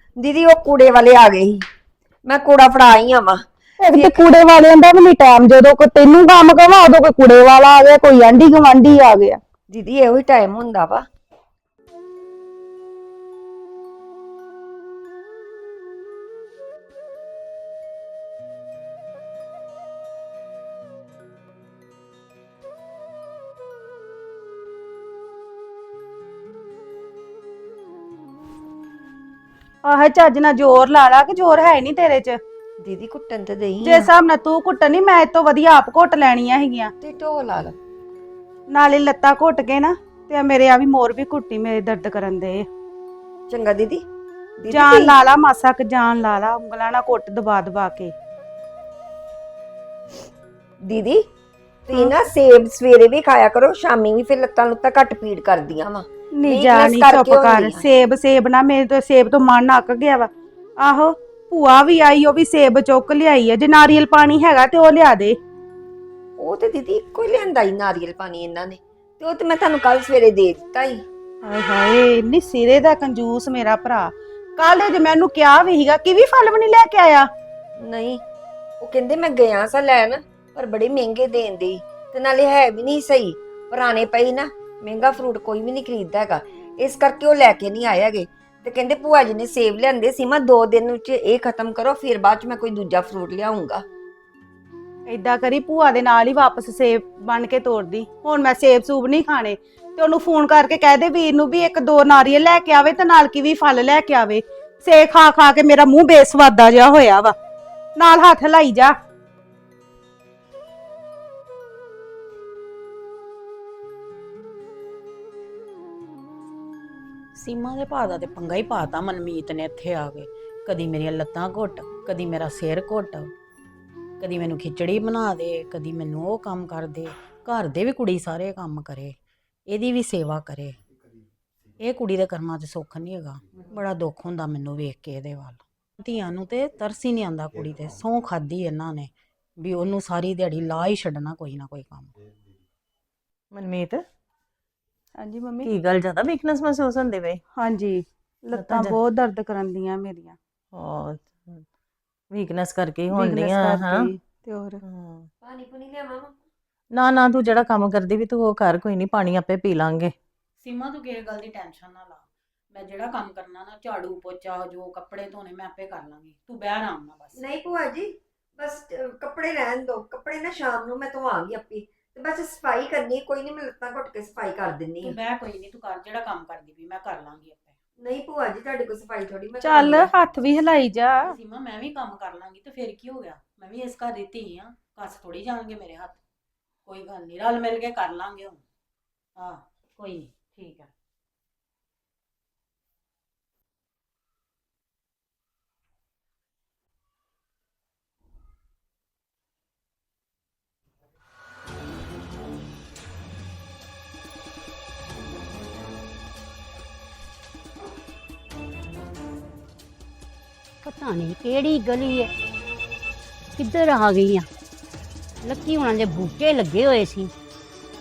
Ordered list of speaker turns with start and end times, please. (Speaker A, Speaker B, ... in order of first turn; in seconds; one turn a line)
Speaker A: 0.2-1.6
Speaker A: 2.2-4.2
Speaker B: 3.8-9.4
Speaker A: 9.7-11.1
Speaker B: 29.9-32.4
Speaker A: 32.8-34.1
Speaker B: 33.8-36.9
Speaker A: 37.0-37.8
Speaker B: 38.7-42.6
Speaker A: 43.5-44.0
Speaker A: 44.6-45.2
Speaker B: 44.7-48.1
Speaker A: 50.8-51.2
Speaker A: 51.9-57.9
Speaker B: 56.4-60.3
Speaker B: 60.8-65.4
Speaker A: 66.4-71.0
Speaker B: 71.4-77.3
Speaker A: 77.8-78.2
Speaker A: 78.8-93.8
Speaker B: 95.1-107.3
Speaker B: 108.0-108.9
Speaker C: 117.4-123.3
Speaker C: 124.2-129.2
Speaker C: 129.7-130.8
Speaker C: 131.8-142.1
Speaker D: 143.5-144.0
Speaker B: 145.2-145.7
Speaker D: 145.7-147.4
Speaker B: 147.6-150.4
Speaker D: 148.5-149.0
Speaker D: 150.8-151.7
Speaker D: 152.3-154.1
Speaker B: 153.1-154.8
Speaker D: 154.8-155.3
Speaker A: 155.4-156.4
Speaker D: 156.9-160.1
Speaker C: 160.6-167.6
Speaker A: 167.4-175.2
Speaker C: 175.0-177.8
Speaker A: 178.0-180.1
Speaker B: 179.6-181.3
Speaker C: 181.2-186.2
Speaker C: 186.8-188.6
Speaker C: 189.4-190.9
Speaker E: 210.8-212.3
Speaker E: 213.6-214.4
Speaker E: 215.4-217.3